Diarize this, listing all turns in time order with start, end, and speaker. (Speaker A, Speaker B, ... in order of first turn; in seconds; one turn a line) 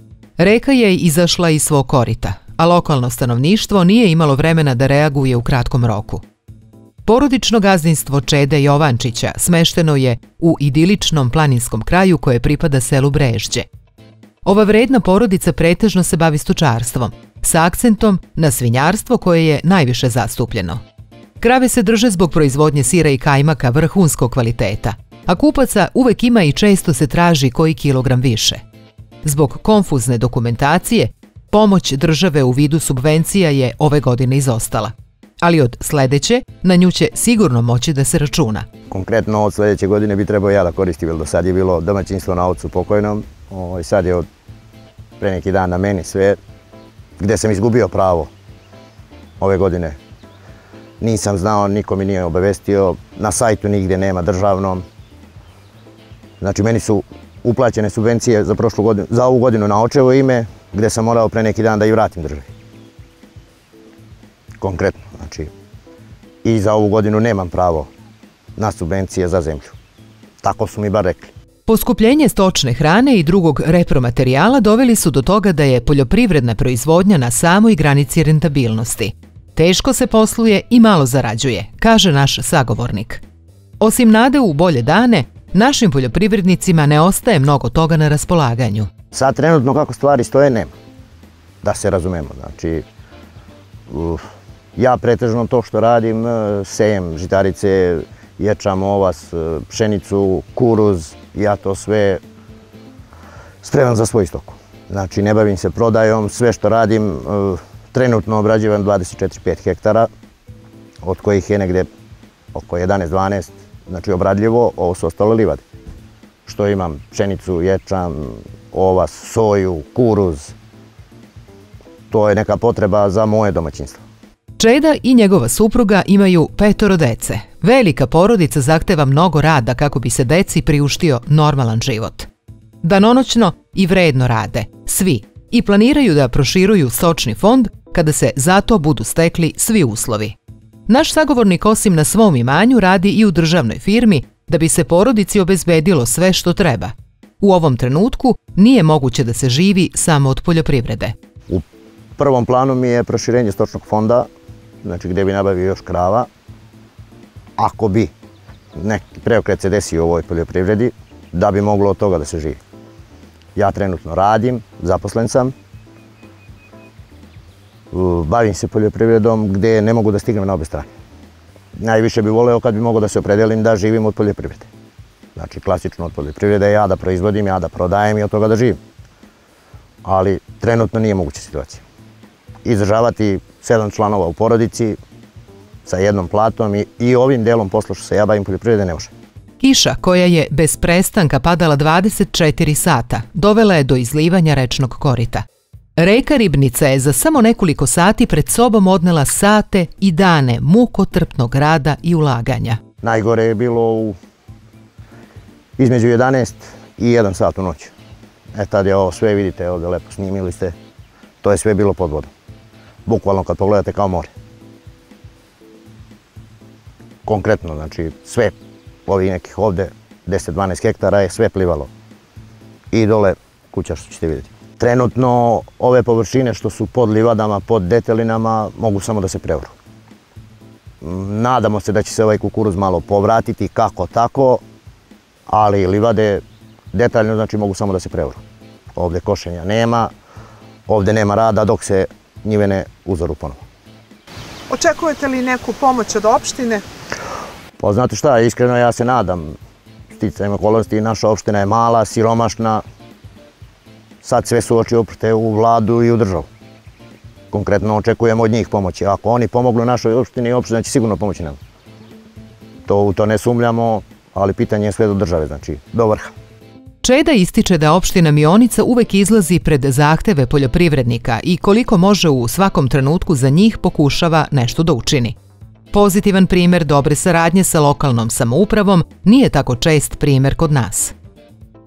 Speaker A: 0.4-6.2
Speaker A: 7.0-13.7
Speaker A: 14.4-20.8
Speaker A: 21.4-28.6
Speaker A: 29.2-38.7
Speaker B: 38.9-44.3
Speaker B: 45.2-46.4
Speaker B: 47.2-48.3
Speaker B: 49.4-50.0
Speaker B: 51.0-54.8
Speaker B: 56.4-62.5
Speaker B: 64.6-65.5
Speaker B: 66.4-67.9
Speaker B: 68.5-69.8
Speaker B: 70.4-71.3
Speaker A: 71.7-83.2
Speaker A: 83.8-88.9
Speaker B: 89.1-90.7
Speaker B: 91.6-92.8
Speaker B: 93.9-94.2
Speaker B: 94.8-102.2
Speaker B: 103.6-110.1
Speaker B: 111.0-111.9
Speaker B: 112.5-115.6
Speaker B: 116.5-120.5
Speaker B: 122.1-124.0
Speaker A: 124.6-132.3
Speaker A: 132.8-140.3
Speaker A: 140.9-151.1
Speaker B: 152.2-154.3
Speaker B: 154.8-156.3
Speaker B: 157.6-158.1
Speaker B: 158.8-162.6
Speaker B: 163.6-165.5
Speaker B: 167.9-170.9
Speaker B: 171.8-174.7
Speaker B: 175.3-178.8
Speaker B: 180.0-181.8
Speaker B: 182.6-185.0
Speaker B: 185.8-189.1
Speaker A: 189.6-195.4
Speaker A: 196.0-202.8
Speaker B: 203.0-204.2
Speaker B: 205.8-207.9
Speaker B: 208.5-210.7
Speaker B: 211.4-212.3
Speaker B: 213.1-214.3
Speaker B: 217.2-218.5
Speaker B: 219.1-221.9
Speaker B: 222.9-229.7
Speaker B: 231.0-234.6
Speaker B: 235.5-238.4
Speaker B: 238.9-240.1
Speaker B: 240.9-243.6
Speaker C: 244.7-246.8
Speaker B: 247.8-249.6
Speaker B: 250.1-252.8
Speaker B: 254.2-256.5
Speaker B: 257.5-261.6
Speaker B: 262.9-266.3
Speaker A: 267.0-275.3
Speaker A: 275.9-281.1